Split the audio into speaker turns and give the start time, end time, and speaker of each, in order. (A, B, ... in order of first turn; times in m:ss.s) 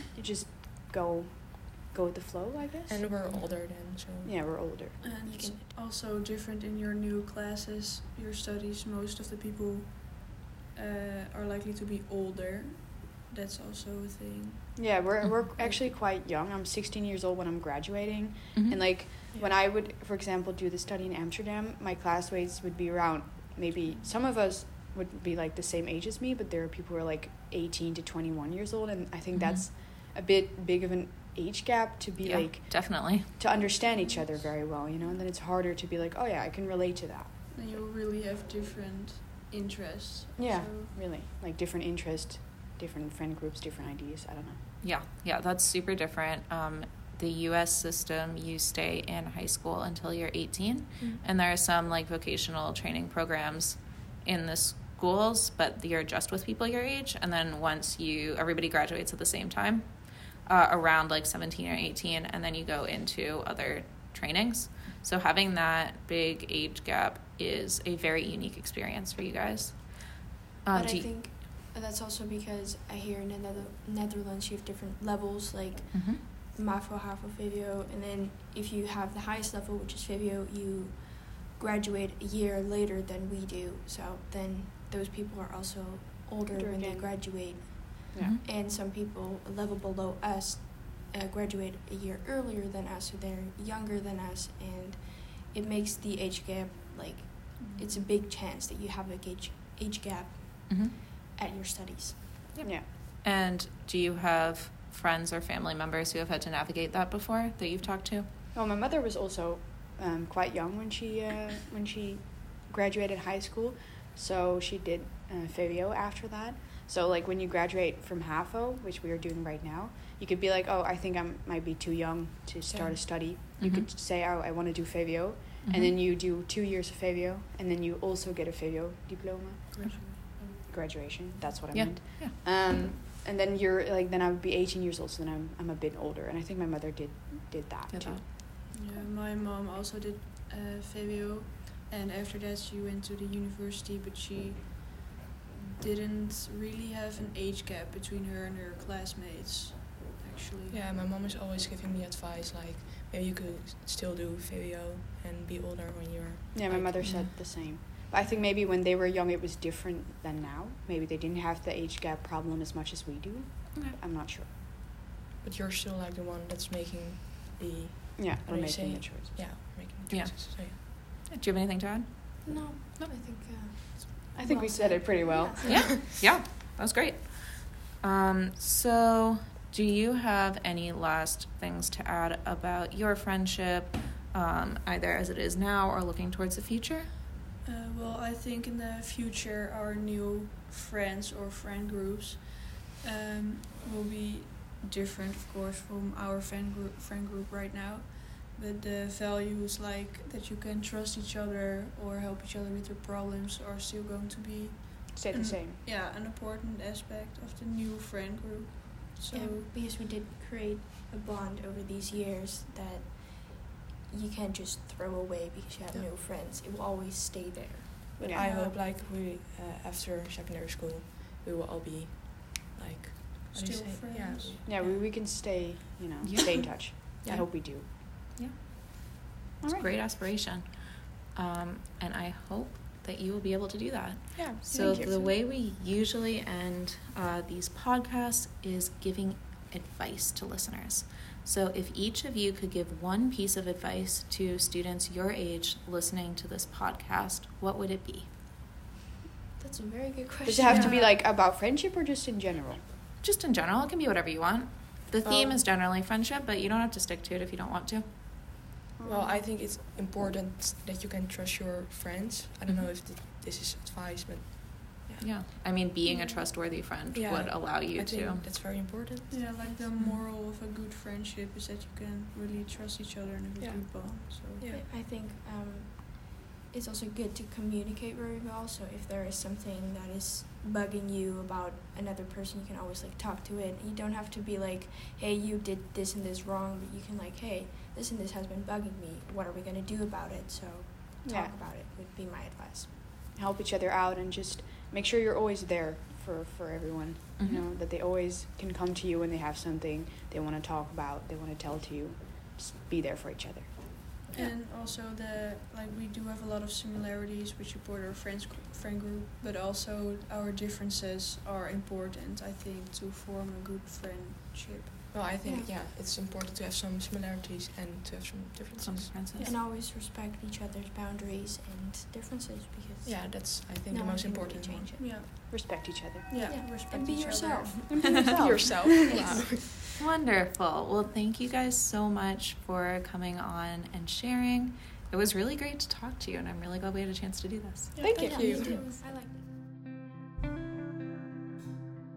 0:00.1-0:03.1 A
0:02.9-0:04.8 B
0:04.2-0:05.0 A
0:05.0-0:14.8 C
0:05.2-0:05.6 D
0:14.8-0:37.3 A
0:15.6-0:15.9 C
0:18.6-0:18.8 E
0:29.3-0:29.7 E
0:32.2-0:33.3 E
0:33.8-0:34.5 C
0:37.5-0:40.9 C
0:40.4-0:44.6 A
0:44.8-1:11.1 E
1:10.7-1:42.5 D
1:15.9-1:16.2 E
1:26.5-1:27.2 A
1:37.6-1:37.9 C
1:40.7-1:40.9 E
1:42.6-1:48.3 E
1:48.5-2:18.3 A
2:02.7-2:03.0 B
2:03.6-2:03.9 E
2:05.7-2:06.0 E
2:09.7-2:10.6 C
2:11.7-2:12.4 E
2:17.9-2:18.2 E
2:18.7-2:30.8 C
2:30.7-2:37.0 B
2:36.5-2:44.5 A
2:37.0-2:37.3 E
2:45.4-2:50.8 B
2:48.2-2:49.3 A
2:50.1-2:52.1 E
2:52.4-2:56.0 D
2:54.4-2:55.9 A
2:55.7-3:07.1 E
3:07.6-3:29.7 C
3:25.1-3:25.8 A
3:29.3-3:38.7 D
3:38.2-3:38.7 C
3:38.3-3:44.8 B
3:43.4-3:44.7 C
3:44.6-3:47.9 A
3:49.6-3:49.9 A
3:49.6-4:08.3 E
3:54.4-3:55.3 B
3:54.8-3:55.1 A
4:09.6-4:11.2 D
4:10.4-4:12.8 A
4:13.2-4:18.1 E
4:15.2-4:15.6 B
4:19.0-4:19.4 A
4:19.0-4:25.3 B
4:25.2-4:28.4 E
4:27.1-4:30.1 B
4:29.3-4:34.6 C
4:33.6-4:34.8 B
4:34.7-4:52.9 D
4:51.2-4:51.6 A
4:53.4-5:03.7 A
4:57.4-4:57.6 E
5:04.3-5:15.0 C
5:15.1-5:19.3 B
5:15.4-5:15.7 D
5:18.8-5:19.5 E
5:19.3-5:19.6 C
5:19.4-5:25.1 D
5:23.0-5:24.9 B
5:25.0-5:25.3 C
5:25.5-5:26.3 A
5:26.3-5:28.4 C
5:26.4-5:28.5 D
5:27.9-5:29.3 A
5:28.3-5:29.9 B
5:29.0-5:29.6 D
5:30.0-5:38.0 E
5:38.0-5:39.4 D
5:38.0-5:38.8 B